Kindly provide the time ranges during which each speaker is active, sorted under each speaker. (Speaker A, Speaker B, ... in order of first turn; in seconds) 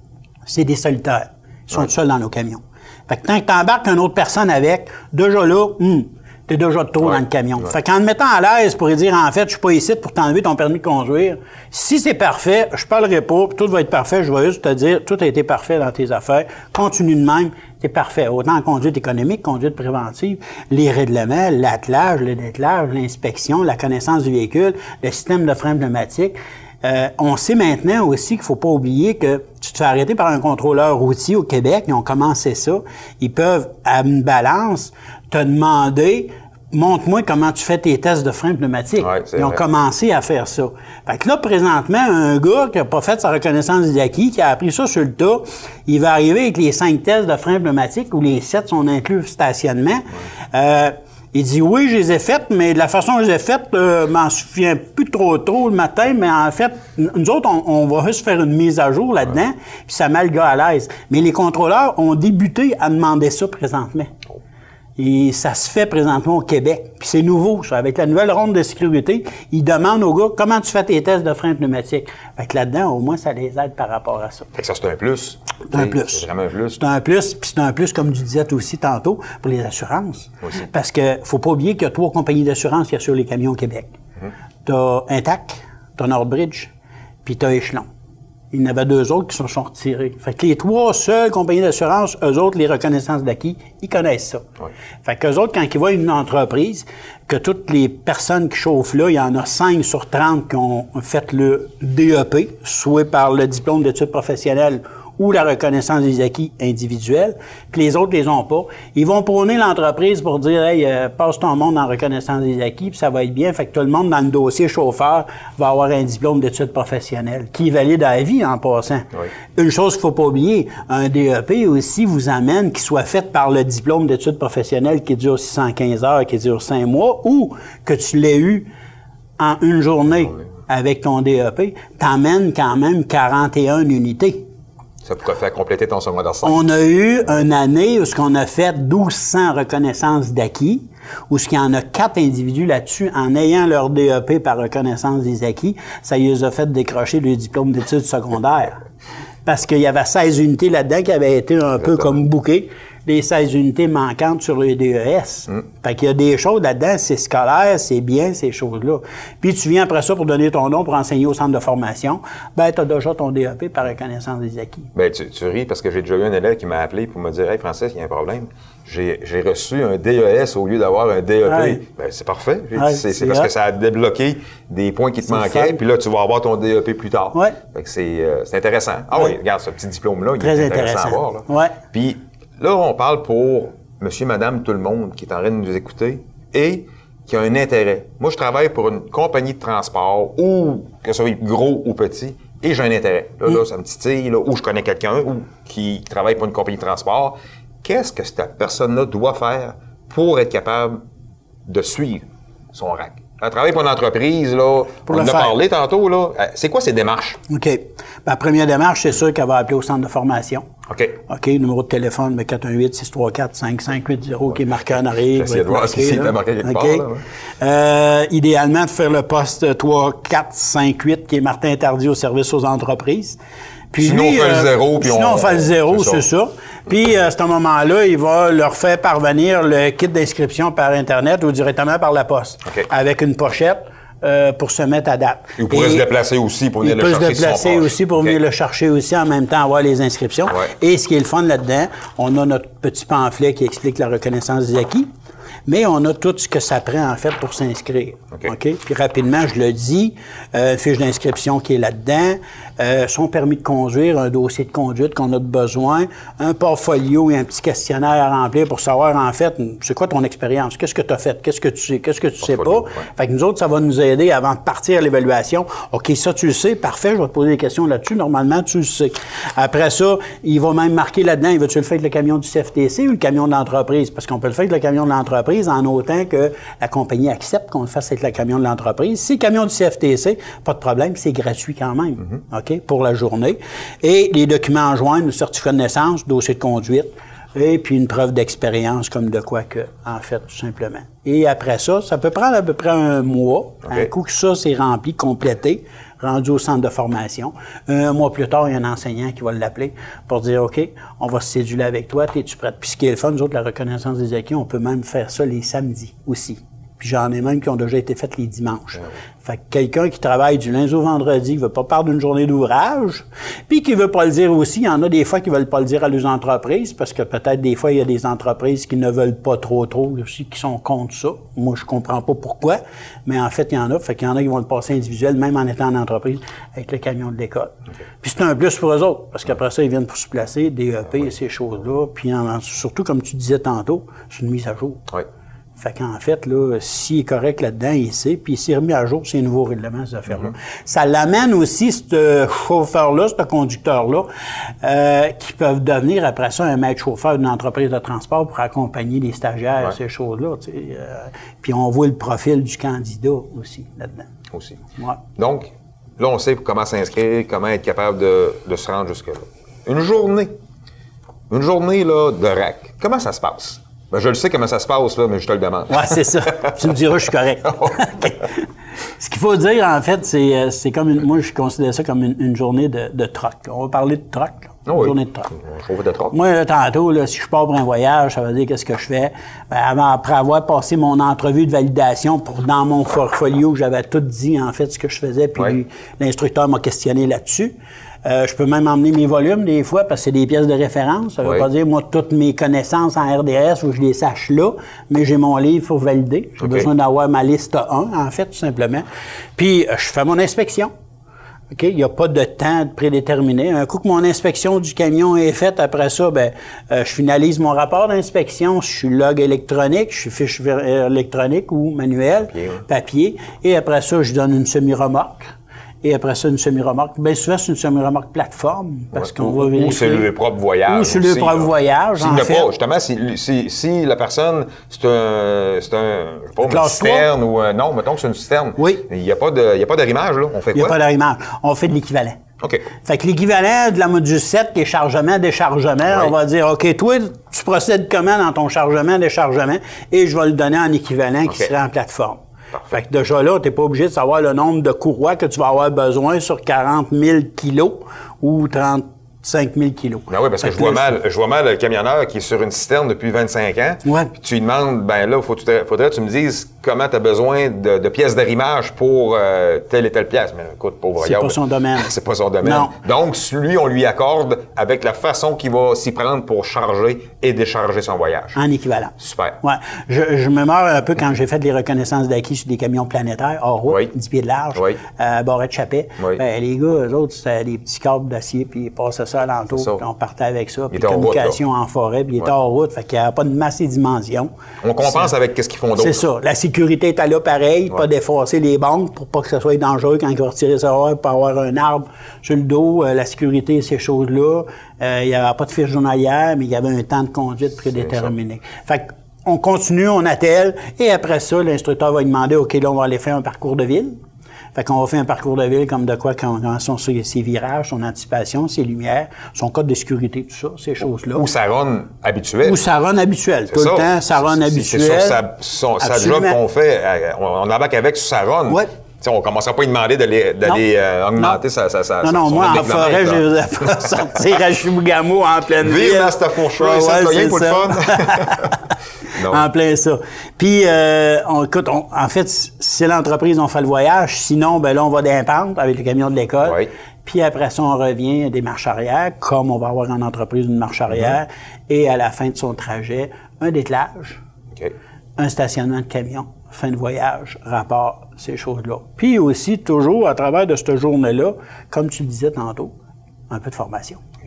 Speaker A: 0.5-64.1, 65.0-74.5, 75.7-76.2, 76.8-83.9, 84.6-86.7, 87.2-87.9, 88.5-94.4, 95.0-128.7, 129.4-134.4, 136.4-148.8, 149.4-164.9, 171.4-171.8, 172.8-173.5, 175.3-175.8, 180.4-181.8, 205.1-205.5, 207.5-210.7, 211.3-217.1, 217.6-223.4, 223.9-236.0, 236.8-245.1, 245.7-335.1, 335.8-344.3, 344.8-354.3, 365.9-368.6, 369.2-375.5, 376.3-387.7, 388.2-399.0, 399.6-400.9, 401.7-420.3, 420.9-422.7, 426.6-427.3, 428.8-429.0, 430.7-432.4, 433.0-451.1, 454.0-454.3, 461.2-462.9, 468.6-484.5, 485.0-485.3, 486.0-504.1, 504.7-511.4, 512.6-515.4, 516.0-516.6, 522.2-528.8, 529.4-544.4, 545.4-552.9, 553.5-554.2
Speaker B: 39.0-39.6, 74.5-76.8, 135.0-136.8, 164.9-201.0, 201.7-207.4, 210.9-211.2, 215.3-217.2, 224.0-226.2, 235.6-238.3, 262.4-263.0, 354.5-354.8, 355.4-360.5, 361.5-366.7, 374.9-376.3, 396.6-396.9, 412.5-412.8, 419.1-431.0, 432.6-432.9, 436.1-436.3, 450.3-468.6, 469.2-469.6, 473.9-474.1, 479.7-480.0, 480.9-481.6, 484.8-486.2, 498.0-498.3, 511.3-512.8, 513.7-523.4, 525.8-528.7, 529.3-529.6, 536.6-536.9